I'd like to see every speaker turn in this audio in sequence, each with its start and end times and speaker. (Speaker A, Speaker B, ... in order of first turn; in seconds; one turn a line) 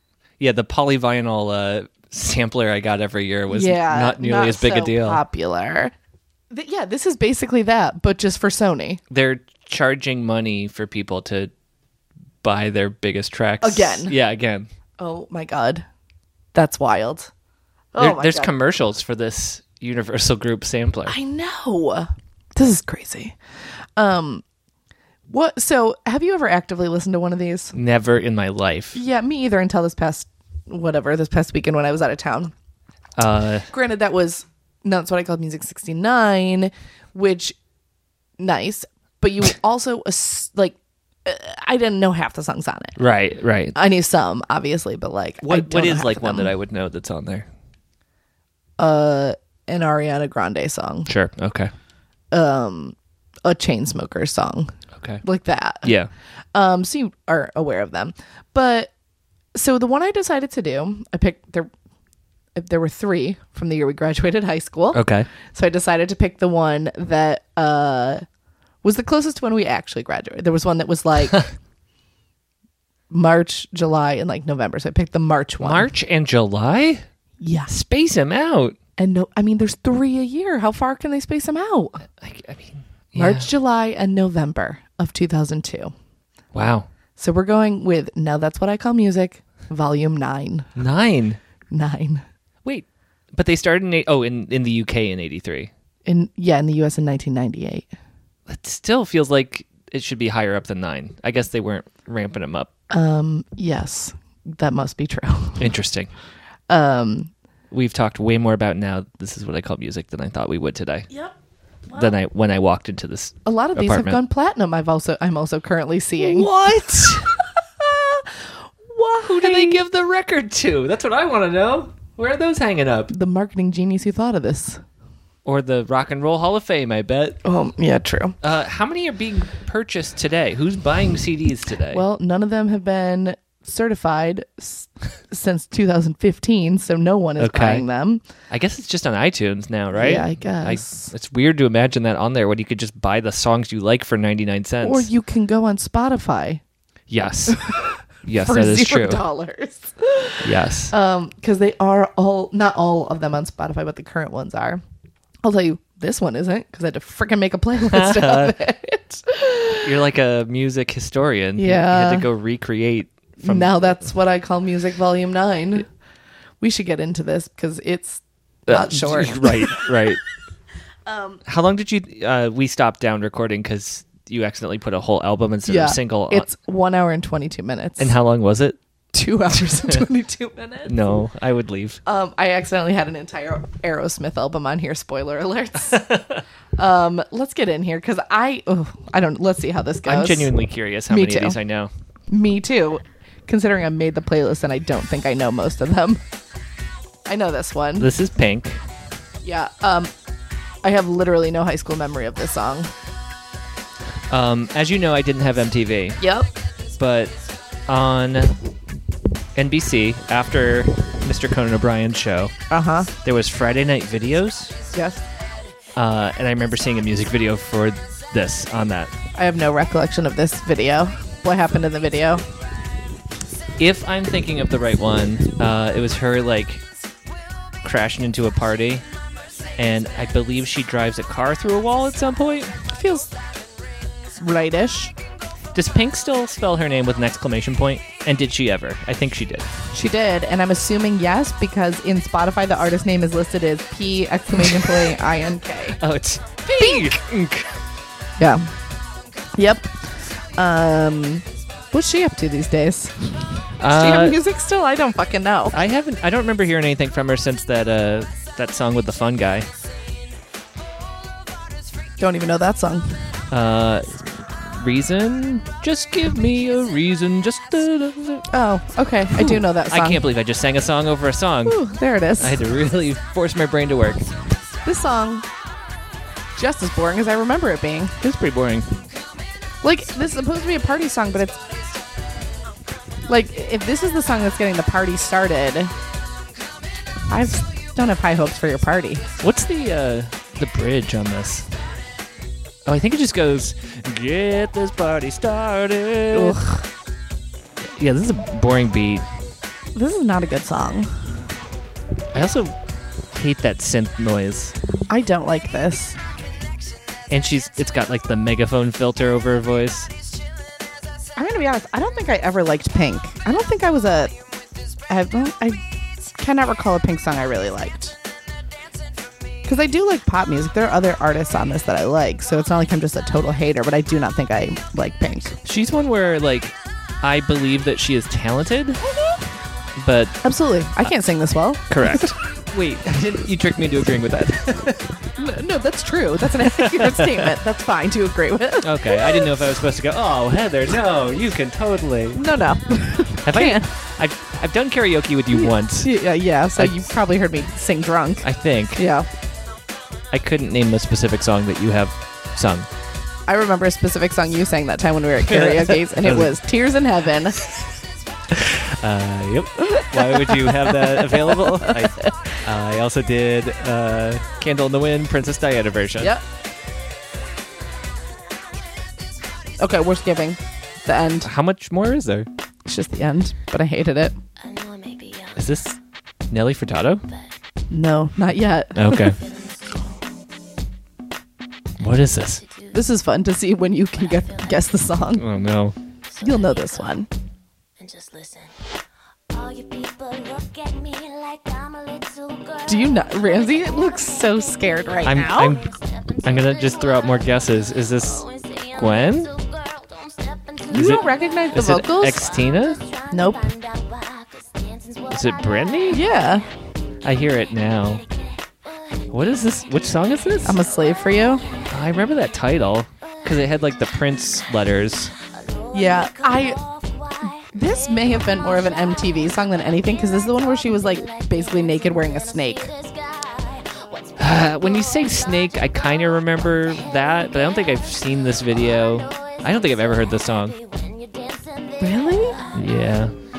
Speaker A: 0.4-5.2
Speaker B: 3.5-5.9
Speaker B: 6.5-9.0
Speaker A: 9.1-11.5
Speaker A: 12.4-14.7
Speaker B: 13.6-14.1
Speaker B: 15.0-15.9
Speaker B: 16.5-17.3
Speaker B: 17.9-18.5
Speaker A: 18.0-21.1
Speaker B: 21.1-23.4
Speaker B: 24.0-24.4
Speaker B: 25.3-27.8
Speaker A: 27.7-29.0
Speaker B: 28.9-32.5
Speaker A: 33.2-33.7
Speaker B: 33.7-37.6
Speaker B: 38.4-43.0
Speaker A: 43.0-43.7
Speaker B: 43.7-46.5
Speaker A: 45.4-47.5
Speaker B: 48.8-51.1
Speaker A: 51.1-51.7
Speaker B: 52.3-54.7
Speaker A: 55.0-55.2
Speaker B: 55.2-55.9
Speaker A: 55.8-56.1
Speaker B: 56.5-58.9
Speaker B: 59.5-61.7
Speaker B: 62.6-68.2
Speaker A: 64.9-65.3
Speaker B: 68.8-71.5
Speaker B: 73.1-75.9
Speaker A: 75.6-77.0
Speaker B: 77.4-77.7
Speaker A: 77.7-78.8
Speaker B: 79.0-82.1
Speaker A: 82.2-83.5
Speaker B: 83.2-85.9
Speaker A: 86.5-86.9
Speaker B: 87.2-90.7
Speaker A: 90.8-91.4
Speaker B: 91.7-92.2
Speaker A: 92.6-95.7
Speaker B: 96.0-97.9
Speaker A: 98.5-102.7
Speaker B: 102.9-105.7
Speaker A: 105.6-106.1
Speaker B: 106.7-107.3
Speaker A: 107.7-111.1
Speaker B: 111.9-112.1
Speaker A: 111.9-114.2
Speaker B: 113.4-119.8
Speaker A: 116.2-117.3
Speaker A: 119.2-123.1
Speaker B: 123.1-124.8
Speaker A: 125.4-127.4
Speaker B: 127.4-128.4
Speaker A: 128.4-132.0
Speaker B: 131.9-138.2
Speaker A: 137.4-137.8
Speaker A: 138.5-145.1
Speaker B: 139.9-141.1
Speaker B: 144.8-146.6
Speaker A: 147.1-147.7
Speaker B: 147.5-154.8
Speaker A: 148.2-149.2
Speaker A: 150.4-150.9
Speaker B: 155.4-159.9
Speaker A: 157.9-158.5
Speaker A: 159.8-163.9
Speaker B: 161.6-162.3
Speaker B: 163.4-165.9
Speaker B: 166.6-170.1
Speaker A: 168.7-170.2
Speaker B: 171.1-171.4
Speaker A: 171.4-176.4
Speaker B: 175.7-178.1
Speaker A: 178.0-178.8
Speaker B: 179.1-180.9
Speaker A: 180.8-182.0
Speaker B: 182.1-186.2
Speaker A: 186.0-186.4
Speaker B: 186.8-190.6
Speaker A: 190.1-191.9
Speaker B: 191.1-191.6
Speaker B: 192.3-196.2
Speaker B: 197.3-198.1
Speaker A: 198.0-198.8
Speaker B: 199.4-200.1
Speaker B: 200.8-202.9
Speaker A: 204.3-206.2
Speaker B: 206.2-206.5
Speaker A: 207.0-207.3
Speaker A: 207.9-208.6
Speaker A: 209.5-212.5
Speaker B: 212.7-213.1
Speaker A: 213.2-214.7
Speaker B: 214.9-215.2
Speaker A: 216.0-219.1
Speaker B: 219.4-222.4
Speaker A: 223.8-226.8
Speaker A: 227.8-229.0
Speaker A: 229.8-232.7
Speaker B: 232.9-233.3
Speaker B: 234.4-235.1
Speaker A: 235.7-239.7
Speaker B: 239.9-246.0
Speaker A: 244.5-245.1
Speaker A: 246.0-247.7
Speaker B: 246.7-247.1
Speaker B: 248.4-248.7
Speaker B: 249.6-255.8
Speaker A: 253.8-254.4
Speaker A: 255.7-259.7
Speaker B: 262.2-263.2
Speaker A: 263.5-268.5
Speaker B: 268.5-270.2
Speaker A: 269.3-271.8
Speaker B: 271.6-272.6
Speaker A: 272.4-274.3
Speaker B: 274.9-275.5
Speaker B: 276.6-278.2
Speaker A: 278.2-279.0
Speaker B: 279.8-281.6
Speaker B: 283.3-285.9
Speaker B: 287.3-289.3
Speaker A: 289.4-291.7
Speaker A: 292.9-296.6
Speaker B: 296.3-296.9
Speaker A: 297.8-299.2
Speaker B: 299.9-301.1
Speaker A: 302.3-302.8
Speaker A: 303.3-304.8
Speaker B: 305.1-306.2
Speaker A: 307.3-310.1
Speaker B: 311.4-314.3
Speaker B: 315.1-315.8
Speaker B: 316.4-318.2
Speaker B: 319.6-325.6
Speaker A: 325.6-329.0
Speaker B: 329.1-329.4
Speaker A: 330.0-330.4
Speaker B: 330.4-332.3
Speaker A: 331.9-335.0
Speaker B: 335.4-339.6
Speaker A: 336.6-337.4
Speaker A: 338.8-342.4
Speaker B: 342.4-343.9
Speaker A: 343.4-346.1
Speaker B: 345.5-349.3
Speaker A: 346.8-347.0
Speaker A: 348.4-349.0
Speaker A: 350.3-352.9
Speaker B: 353.5-357.6
Speaker A: 355.4-356.5
Speaker A: 358.5-366.3
Speaker B: 359.8-362.6
Speaker B: 369.8-371.5
Speaker A: 371.4-372.5
Speaker B: 372.9-374.4
Speaker C: 374.6-375.6
Speaker A: 375.6-376.0
Speaker A: 376.5-377.2
Speaker B: 377.9-379.4
Speaker A: 378.9-379.4
Speaker A: 382.0-382.6
Speaker C: 382.7-383.0
Speaker B: 382.9-385.5
Speaker A: 385.4-386.0
Speaker C: 386.3-387.0
Speaker B: 386.4-387.3
Speaker C: 388.0-388.7
Speaker C: 389.5-393.2
Speaker B: 392.9-395.8
Speaker A: 395.2-399.5
Speaker C: 396.3-397.5
Speaker C: 398.1-401.2
Speaker B: 400.9-402.5
Speaker A: 400.9-403.0
Speaker C: 402.8-406.4
Speaker B: 403.3-403.7
Speaker A: 405.3-406.2
Speaker B: 406.1-406.6
Speaker A: 407.2-408.2
Speaker A: 409.3-410.8
Speaker B: 410.6-411.6
Speaker A: 411.9-415.3
Speaker C: 415.7-417.6
Speaker B: 415.9-416.8
Speaker B: 417.7-422.9
Speaker C: 421.3-425.9
Speaker A: 424.4-430.8
Speaker C: 429.3-432.7
Speaker B: 432.0-432.6
Speaker A: 432.7-433.3